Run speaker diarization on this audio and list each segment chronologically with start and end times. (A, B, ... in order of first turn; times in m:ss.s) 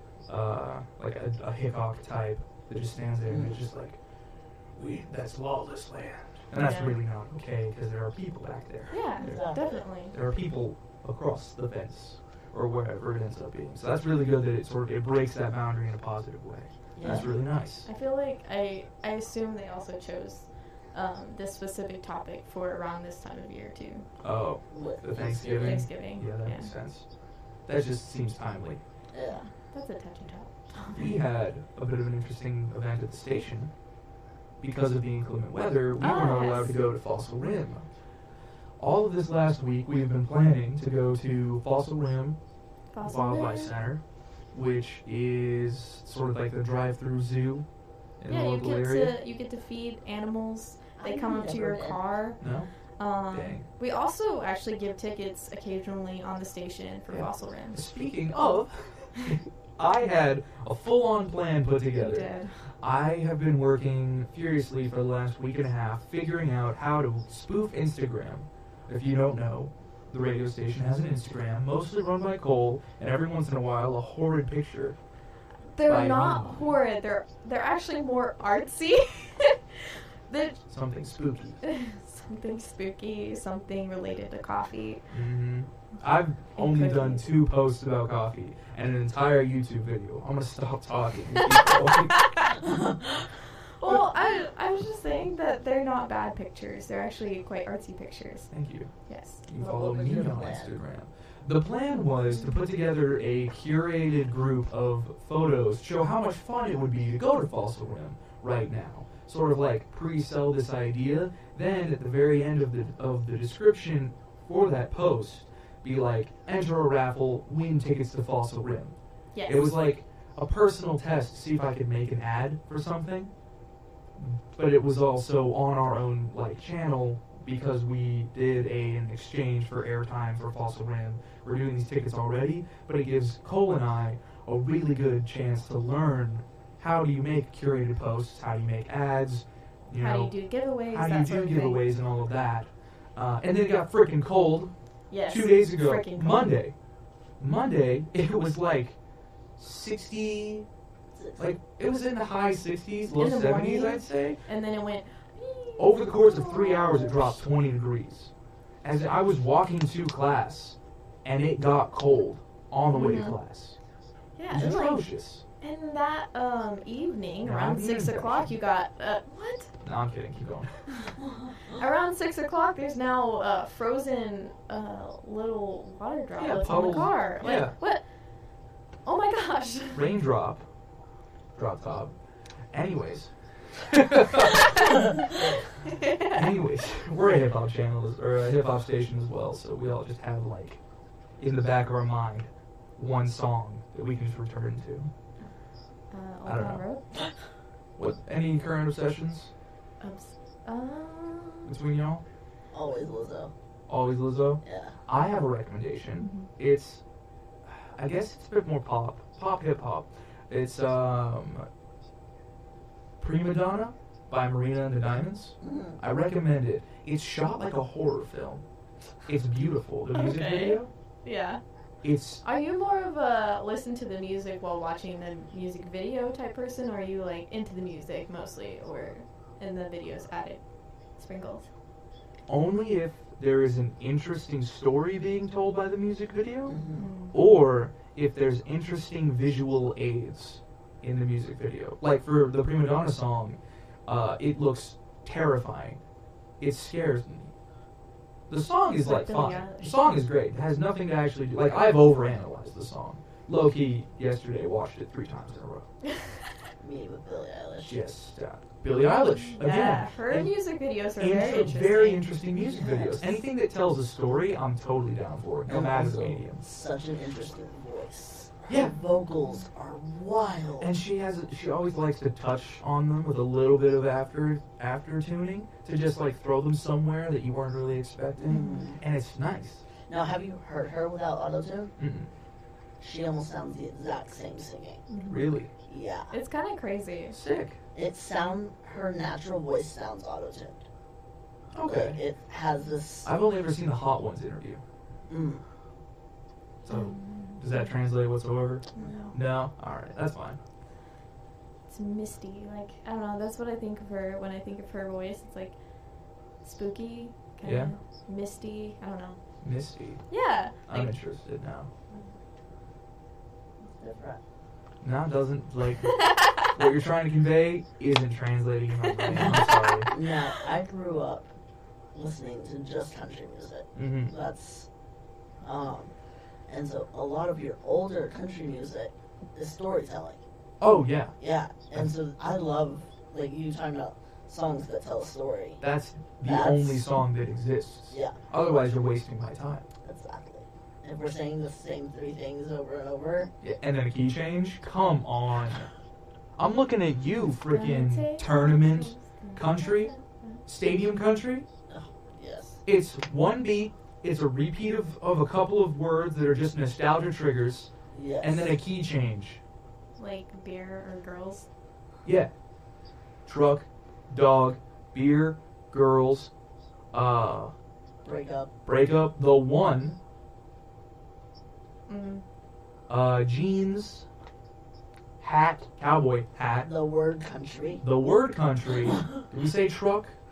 0:00.3-0:04.0 A
0:03.3-0:03.6 B
0:04.7-0:09.5 A
0:06.5-0:07.0 C
0:08.9-0:10.1 C
0:09.2-0:09.8 B
0:10.1-0:17.9 A
0:16.9-0:17.3 B
0:17.0-0:17.3 C
0:17.8-0:24.1 C
0:24.2-0:27.1 A
0:24.7-0:25.8 B
0:25.5-0:26.7 C
0:27.7-0:28.8 A
0:29.1-0:29.4 B
0:29.2-0:31.1 C
0:30.9-0:33.7 A
0:34.6-0:37.8 A
0:36.0-0:36.7 C
0:38.8-0:42.4 A
0:42.9-0:43.7 C
0:43.0-0:47.7 A
0:48.2-0:49.1 A
0:48.3-0:57.8 C
0:51.0-0:52.0 B
0:52.4-0:52.7 A
0:53.3-0:53.6 A
0:57.1-1:15.0 A
1:01.9-1:02.6 C
1:15.7-1:20.6 C
1:15.9-1:16.7 A
1:20.7-1:21.6 A
1:21.6-1:25.0 C
1:25.1-1:32.2 A
1:26.6-1:27.3 C
1:32.1-1:32.6 C
1:32.6-1:32.9 B
1:33.8-1:38.5 C
1:38.5-2:03.3 A
1:39.0-1:39.4 C
1:39.6-1:40.7 B
1:59.3-1:59.7 C
2:04.2-2:24.7 A
2:20.0-2:21.8 C
2:25.1-2:26.5 C
2:25.2-2:26.8 A
2:27.4-2:29.0 A
2:29.6-2:30.7 A
2:31.1-2:31.5 B
2:31.4-2:34.4 A
2:33.2-2:37.3 C
2:35.8-2:38.3 A
2:38.8-2:43.8 A
2:42.9-2:43.4 C
2:44.4-2:45.1 C
2:44.5-2:45.4 A
2:45.6-2:49.7 C
2:47.4-2:48.5 A
2:49.8-2:50.8 A
2:50.9-2:58.0 C
2:56.4-2:57.8 A
2:59.0-3:00.0 C
2:59.9-3:00.7 A
3:01.5-3:02.1 A
3:02.7-3:05.0 A
3:05.9-3:06.4 C
3:06.2-3:10.8 A
3:11.4-3:15.1 A
3:16.1-3:17.3 C
3:16.4-3:16.8 A
3:18.0-3:19.5 A
3:20.0-3:21.7 C
3:21.6-3:22.2 A
3:22.7-3:23.5 B
3:23.9-3:27.0 A
3:24.6-3:25.0 B
3:26.2-3:26.5 C
3:27.7-3:31.7 A
3:33.2-3:38.6 A
3:35.6-3:36.0 B
3:39.2-3:40.9 A
3:40.1-3:41.6 C
3:42.0-3:42.4 A
3:42.4-3:50.6 C
3:51.2-3:51.7 C
3:52.5-4:06.0 A
3:56.7-3:57.1 B
3:56.9-3:57.4 C
4:06.6-4:07.5 A
4:08.5-4:15.9 A
4:09.0-4:10.0 C
4:16.8-4:18.0 B
4:17.8-4:20.5 A
4:19.6-4:22.3 C
4:21.2-4:26.6 A
4:22.5-4:23.2 B
4:25.7-4:30.9 B
4:28.7-4:29.0 A
4:30.8-4:39.8 A
4:38.5-4:38.9 C
4:38.5-4:39.0 B
4:40.1-4:41.9 B
4:42.0-4:42.3 A
4:43.0-4:45.0 B
4:45.1-4:45.4 C
4:45.3-4:45.7 A
4:45.8-4:46.3 B
4:46.3-4:47.4 C
4:47.3-4:47.8 A
4:47.9-4:50.8 B
4:51.7-4:52.2 A
4:51.8-4:53.3 B
4:53.2-4:54.8 A
4:55.3-4:55.6 B
4:56.8-5:00.6 A
4:56.9-4:57.9 C
4:58.9-4:59.4 C
4:59.0-4:59.3 B
5:01.9-5:05.8 C
5:06.6-5:09.4 C
5:07.6-5:07.9 A
5:09.6-5:10.3 A
5:10.3-5:11.1 C
5:10.8-5:11.9 A
5:13.9-5:14.4 B
5:15.0-5:20.1 A
5:19.3-5:21.5 B
5:19.3-5:19.6 C
5:22.1-5:24.9 B
5:23.9-5:24.3 A
5:25.6-5:26.1 B
5:26.7-5:30.4 B
5:30.8-5:31.4 A
5:31.4-5:35.8 B
5:35.8-5:39.8 A
5:36.4-5:37.0 B
5:38.1-5:38.4 B
5:40.0-5:43.5 B
5:43.6-5:45.9 A
5:46.6-5:50.1 A
5:47.7-5:50.6 C
5:50.6-5:51.6 A
5:51.9-5:52.8 B
5:52.8-5:57.9 A
5:58.1-5:58.7 B
5:58.4-5:59.6 A
6:00.2-6:01.7 C
6:02.2-6:02.5 A
6:03.4-6:06.5 A
6:07.1-6:07.7 A
6:08.2-6:08.7 B
6:08.8-6:10.2 A
6:12.1-6:12.4 C
6:13.1-6:14.2 A
6:15.4-6:16.9 A
6:16.8-6:18.0 B
6:18.0-6:20.4 A